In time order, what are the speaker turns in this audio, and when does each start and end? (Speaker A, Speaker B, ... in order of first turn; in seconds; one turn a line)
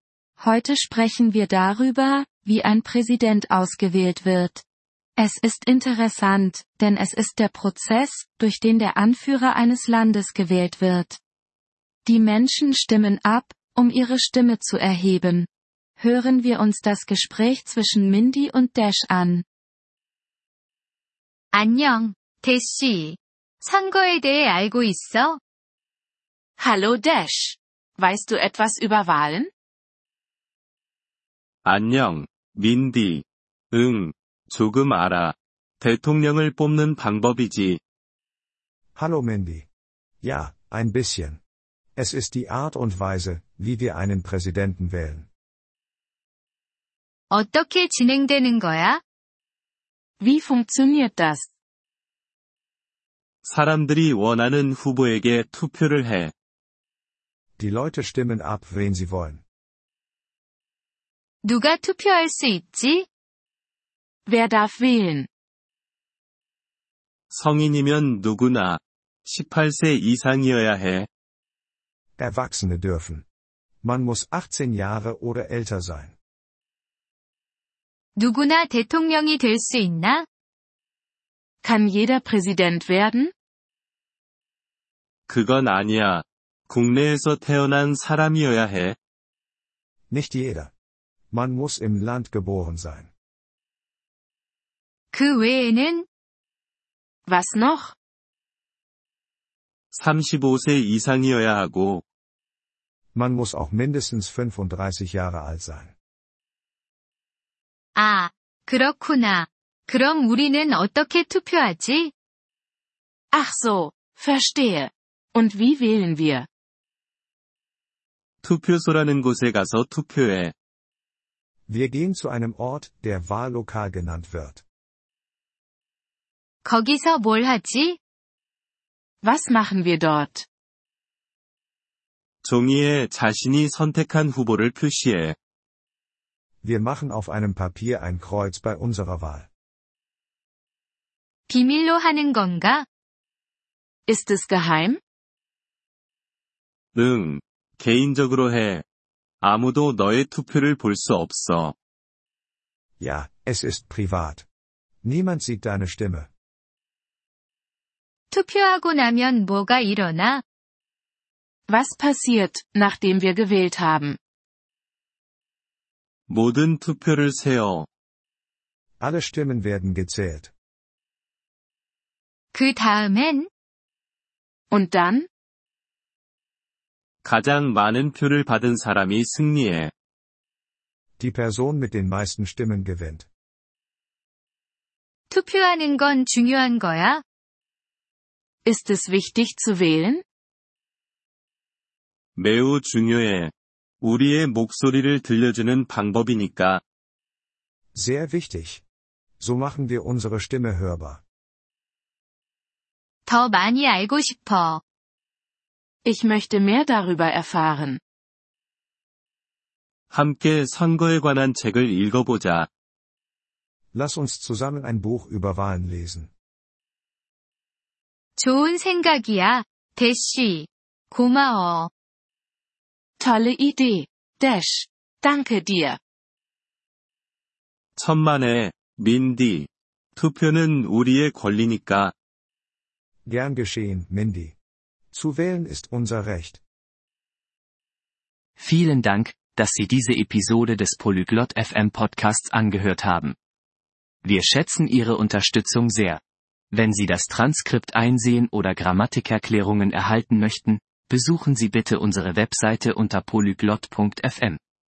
Speaker A: 0.4-4.6
Speaker A: 5.2-11.2
Speaker A: 12.1-19.4
Speaker B: 21.5-25.4
Speaker C: 26.6-29.5
Speaker D: 31.6-37.8
Speaker E: 39.0-39.7
Speaker E: 40.2-41.4
Speaker E: 42.0-45.3
Speaker B: 47.3-49.0
Speaker C: 50.2-51.5
Speaker D: 53.4-56.3
Speaker E: 57.6-59.4
Speaker B: 61.5-63.1
Speaker C: 64.3-65.3
Speaker D: 67.3-71.1
Speaker E: 72.2-73.2
Speaker E: 73.8-76.2
Speaker B: 78.2-80.3
Speaker C: 81.6-83.3
Speaker D: 85.3-89.0
Speaker E: 90.1-90.7
Speaker E: 91.3-93.1
Speaker B: 95.2-96.0
Speaker C: 97.3-98.0
Speaker D: 99.9-102.0
Speaker E: 103.2-105.9
Speaker B: 108.0-112.1
Speaker C: 113.3-116.5
Speaker D: 118.4-120.5
Speaker E: 121.7-124.6
Speaker B: 126.7-128.0
Speaker C: 129.2-130.4
Speaker D: 132.4-135.3
Speaker E: 136.6-139.5
Speaker B: 141.5-142.8
Speaker C: 144.1-145.0
Speaker D: 146.9-148.8
Speaker D: 149.4-151.7
Speaker E: 153.0-154.5
Speaker E: 155.0-156.3
Speaker B: 158.3-160.4
Speaker C: 161.7-164.2
Speaker D: 166.3-167.9
Speaker E: 169.0-170.5
Speaker B: 172.6-173.5
Speaker C: 174.7-175.3
Speaker D: 177.2-179.9
Speaker E: 181.2-183.3
Speaker B: 185.4-187.2
Speaker C: 188.7-190.2
Speaker D: 192.4-196.8
Speaker E: 197.9-198.8
Speaker E: 199.4-201.2
Speaker B: 203.3-204.8
Speaker C: 206.1-208.0
Speaker D: 210.1-212.7
Speaker E: 213.9-216.3
Speaker B: 218.4-221.9
Speaker C: 223.2-226.0
Speaker D: 228.0-232.1
Speaker E: 233.3-234.6
Speaker E: 235.1-236.6
Speaker F: 238.6-243.3
Speaker F: 244.2-254.6